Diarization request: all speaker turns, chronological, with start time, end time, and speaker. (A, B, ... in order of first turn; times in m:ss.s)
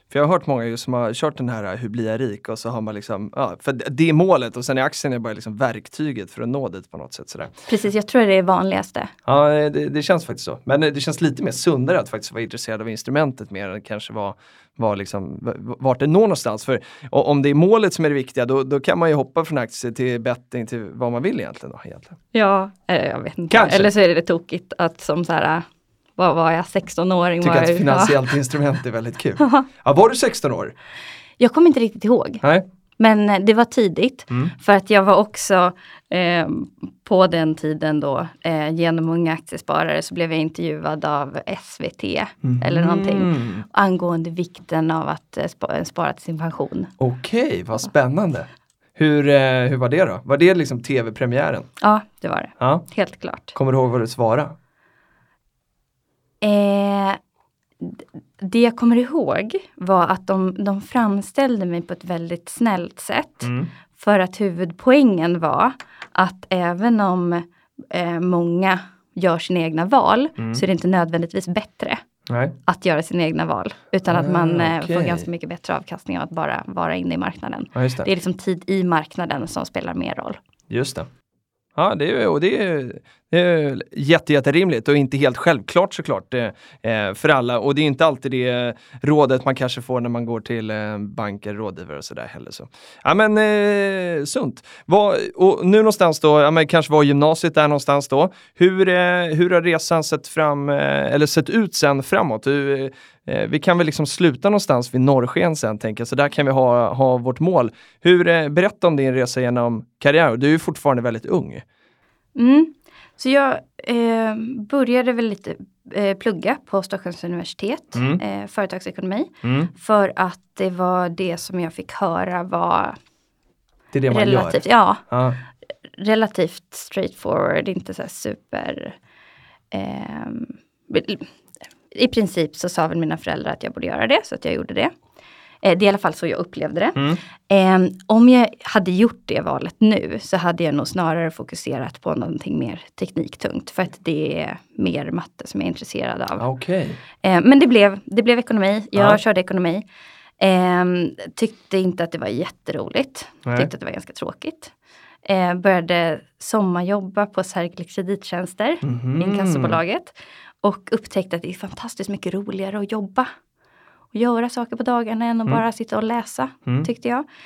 0:00.1-0:07.5 A
0:07.7-0:09.1 B
0:09.2-0:22.2 A
0:22.3-0:25.7 B
0:23.5-0:23.9 A
0:26.2-0:28.3 B
0:27.4-0:30.7 A
0:29.4-0:29.7 B
0:31.4-0:32.4 B
0:33.0-0:46.9 B
0:42.4-0:43.6 A
0:47.0-0:51.7 A
0:51.8-0:53.6 B
0:52.6-0:52.9 A
0:53.6-0:54.6 A
0:56.4-0:57.2 B
0:57.8-1:12.0 B
1:03.4-1:03.7 A
1:12.3-1:12.6 A
1:12.7-1:20.4 B
1:14.1-1:15.3 A
1:17.8-1:18.1 A
1:20.7-1:21.1 A
1:21.8-1:51.6 A
1:52.4-2:03.0 B
1:58.0-1:58.2 A
1:59.4-1:59.7 A
2:03.9-2:05.4 A
2:04.1-2:05.0 B
2:05.9-2:09.0 B
2:09.7-2:11.3 B
2:11.9-2:14.9 B
2:15.6-2:26.4 B
2:17.0-2:17.2 A
2:26.4-2:27.0 A
2:27.2-2:29.8 B
2:29.0-2:29.2 A
2:30.4-2:34.7 B
2:33.4-2:33.7 A
2:35.2-2:43.3 B
2:38.8-2:39.8 A
2:44.1-2:47.2 B